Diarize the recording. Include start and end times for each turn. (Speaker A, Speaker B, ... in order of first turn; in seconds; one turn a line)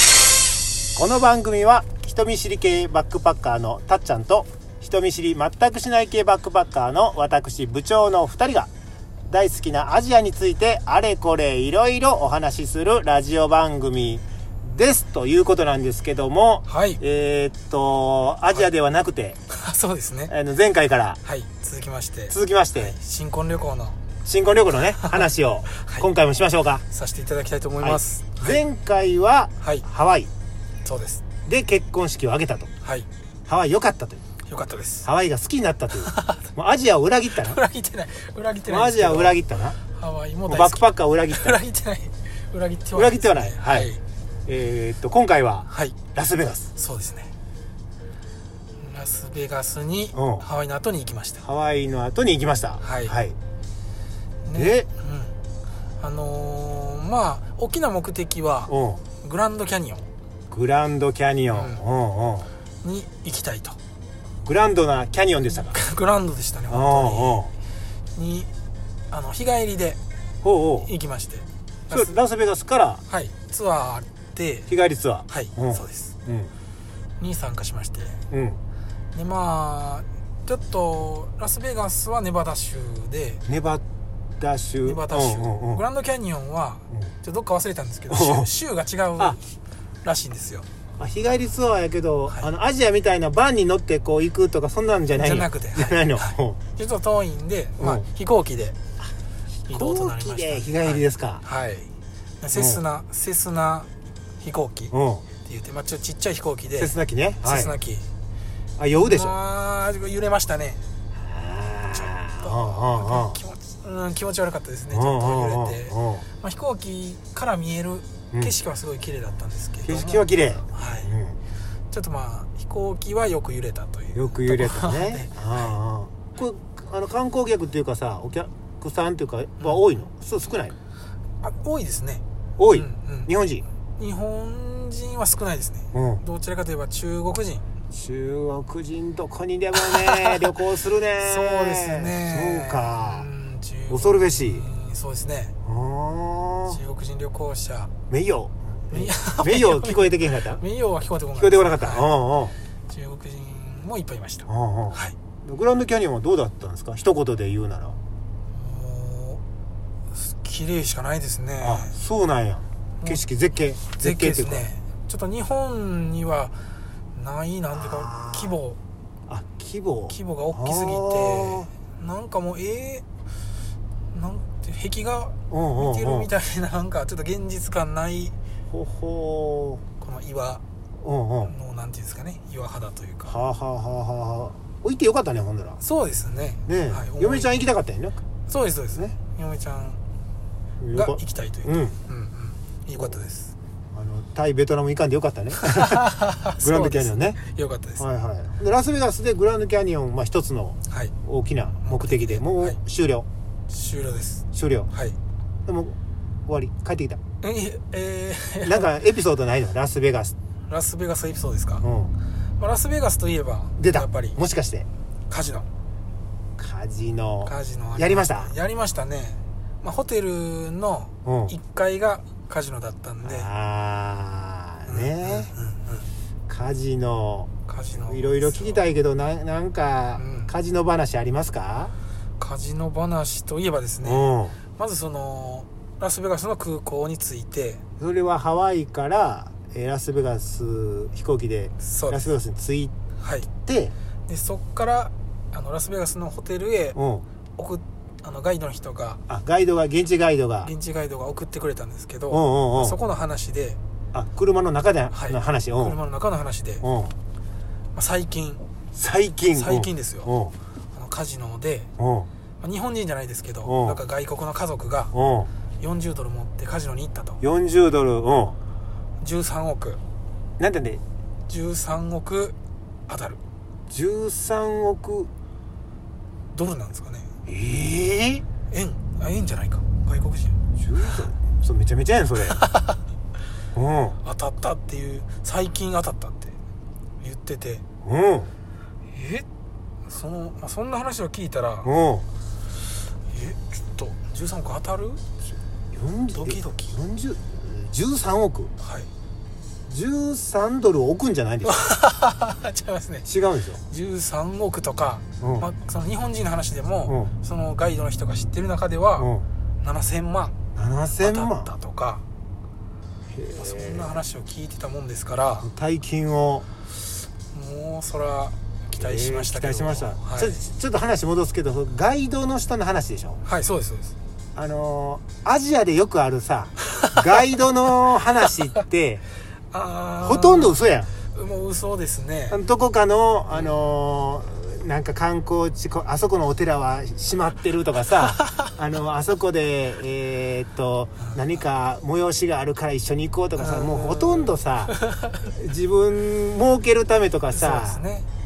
Speaker A: 0.9-8.7
Speaker A: 9.3-19.4
Speaker B: 16.7-17.0
Speaker B: 19.5-20.3
Speaker A: 20.3-21.2
Speaker B: 21.2-24.1
Speaker A: 22.3-23.0
Speaker A: 24.2-26.8
Speaker B: 24.9-26.1
Speaker B: 26.9-28.6
Speaker A: 27.8-30.3
Speaker B: 29.6-29.9
Speaker B: 30.9-31.4
Speaker A: 31.4-32.7
Speaker B: 32.8-33.1
Speaker A: 33.5-34.2
Speaker B: 34.4-35.1
Speaker A: 35.0-37.6
Speaker B: 35.9-36.5
Speaker B: 37.2-44.0
Speaker A: 38.6-39.8
Speaker A: 40.5-41.6
Speaker A: 42.9-43.9
Speaker A: 44.5-46.7
Speaker B: 45.7-46.1
Speaker B: 46.7-47.3
Speaker B: 48.8-51.5
Speaker A: 50.1-50.5
Speaker A: 51.4-53.4
Speaker B: 52.8-53.1
Speaker B: 54.4-55.4
Speaker A: 54.5-54.9
Speaker B: 56.0-60.1
Speaker A: 58.7-59.0
Speaker A: 60.5-62.5
Speaker B: 61.5-61.9
Speaker B: 62.8-63.8
Speaker A: 64.5-65.8
Speaker B: 65.5-67.4
Speaker A: 66.7-67.5
Speaker B: 68.2-68.5
Speaker B: 69.1-70.0
Speaker A: 70.4-70.9
Speaker B: 70.8-72.2
Speaker A: 71.9-73.0
Speaker B: 73.1-74.8
Speaker A: 74.7-76.5
Speaker B: 75.3-76.2
Speaker B: 77.2-78.2
Speaker A: 78.3-78.6
Speaker B: 79.1-83.4
Speaker A: 83.5-83.8
Speaker A: 84.4-85.9
Speaker B: 84.8-89.4
Speaker A: 88.1-88.5
Speaker B: 90.0-90.7
Speaker A: 91.0-96.6
Speaker B: 95.1-98.8
Speaker A: 97.8-98.1
Speaker B: 99.7-101.9
Speaker A: 99.7-101.4
Speaker B: 102.4-103.9
Speaker A: 102.6-102.8
Speaker B: 104.4-108.1
Speaker A: 104.9-105.3
Speaker A: 106.8-107.8
Speaker A: 108.8-109.3
Speaker B: 108.9-110.8
Speaker A: 111.2-113.4
Speaker B: 111.9-121.1
Speaker A: 114.9-116.3
Speaker A: 118.3-118.6
Speaker A: 119.8-121.4
Speaker B: 121.9-125.8
Speaker A: 124.1-130.8
Speaker B: 129.6-129.9
Speaker B: 131.4-133.3
Speaker A: 132.6-133.6
Speaker B: 134.0-137.7
Speaker A: 135.9-136.2
Speaker A: 137.9-143.3
Speaker B: 139.7-145.6
Speaker A: 143.9-144.7
Speaker A: 145.6-146.8
Speaker B: 146.7-148.0
Speaker A: 148.1-150.6
Speaker B: 148.9-152.3
Speaker A: 151.4-152.6
Speaker B: 152.9-155.2
Speaker A: 154.5-158.0
Speaker B: 158.5-159.4
Speaker B: 160.1-162.0
Speaker A: 161.6-164.7
Speaker B: 163.9-166.6
Speaker B: 167.1-168.8
Speaker A: 167.7-168.6
Speaker A: 169.3-171.7
Speaker B: 170.1-173.1
Speaker B: 174.1-178.3
Speaker A: 175.5-176.3
Speaker A: 178.7-179.8
Speaker B: 180.0-180.6
Speaker A: 181.0-181.5
Speaker B: 181.4-183.4
Speaker A: 183.2-185.8
Speaker B: 185.8-187.7
Speaker A: 186.7-188.2
Speaker B: 188.4-190.0
Speaker A: 188.9-189.2
Speaker A: 190.8-192.0
Speaker B: 190.9-193.5
Speaker A: 193.9-196.0
Speaker B: 195.5-198.1
Speaker A: 196.6-197.4
Speaker A: 198.0-203.3
Speaker B: 200.9-201.1
Speaker B: 201.7-202.8
Speaker B: 203.7-205.2
Speaker A: 204.5-204.9
Speaker A: 205.7-207.2
Speaker B: 207.4-209.2
Speaker A: 208.6-210.3
Speaker B: 210.7-211.9
Speaker A: 211.8-212.2
Speaker B: 212.6-214.5
Speaker A: 213.8-214.9
Speaker B: 215.3-215.7
Speaker A: 216.6-218.5
Speaker B: 217.4-223.5
Speaker A: 221.2-221.6
Speaker A: 223.2-225.5
Speaker B: 224.9-226.1
Speaker A: 226.5-231.9
Speaker B: 227.7-228.9
Speaker B: 230.2-230.6
Speaker B: 232.4-237.8
Speaker A: 234.0-234.6
Speaker A: 238.0-242.9
Speaker B: 241.8-242.4
Speaker B: 243.2-243.6
Speaker A: 243.6-243.9
Speaker B: 244.3-247.0
Speaker A: 246.9-247.2
Speaker B: 247.6-249.2
Speaker A: 249.3-250.7
Speaker B: 250.6-253.8
Speaker A: 252.3-253.0
Speaker A: 254.1-256.0
Speaker B: 255.1-256.9
Speaker A: 256.8-257.1
Speaker B: 257.9-258.6
Speaker A: 258.9-260.6
Speaker B: 259.4-260.3
Speaker B: 260.9-261.9
Speaker A: 262.0-262.3
Speaker B: 262.6-265.1
Speaker A: 263.6-264.0
Speaker A: 265.1-265.5
Speaker B: 265.8-267.4
Speaker A: 267.4-268.6
Speaker B: 269.2-270.0
Speaker A: 270.6-271.0
Speaker B: 271.5-272.6
Speaker B: 273.1-273.4
Speaker A: 273.9-275.3
Speaker B: 276.5-277.3
Speaker A: 277.5-278.5
Speaker B: 278.6-281.5
Speaker A: 280.8-282.6
Speaker B: 282.4-283.0
Speaker A: 283.7-284.2
Speaker B: 284.2-286.6
Speaker B: 287.2-287.9
Speaker A: 288.0-288.5
Speaker B: 289.1-289.5
Speaker B: 290.1-291.9
Speaker A: 291.8-292.3
Speaker B: 293.1-295.2
Speaker A: 295.9-298.7
Speaker B: 296.3-296.9
Speaker B: 298.8-299.1
Speaker A: 299.9-301.7
Speaker B: 301.6-309.3
Speaker A: 303.2-303.8
Speaker A: 305.4-305.7
Speaker A: 307.1-307.3
Speaker A: 309.2-309.4
Speaker B: 309.8-310.6
Speaker A: 310.8-311.7
Speaker B: 311.1-312.2
Speaker A: 313.3-314.2
Speaker B: 313.5-315.7
Speaker A: 315.6-316.7
Speaker B: 317.5-320.7
Speaker A: 318.9-323.4
Speaker B: 323.4-324.1
Speaker A: 324.6-329.2
Speaker B: 326.8-327.4
Speaker B: 328.4-328.9
Speaker B: 329.7-332.6
Speaker A: 330.2-331.1
Speaker A: 332.5-344.9
Speaker B: 333.5-333.9
Speaker B: 338.1-338.8
Speaker B: 341.2-341.6
Speaker B: 343.6-345.5
Speaker A: 345.5-348.1
Speaker B: 347.5-348.3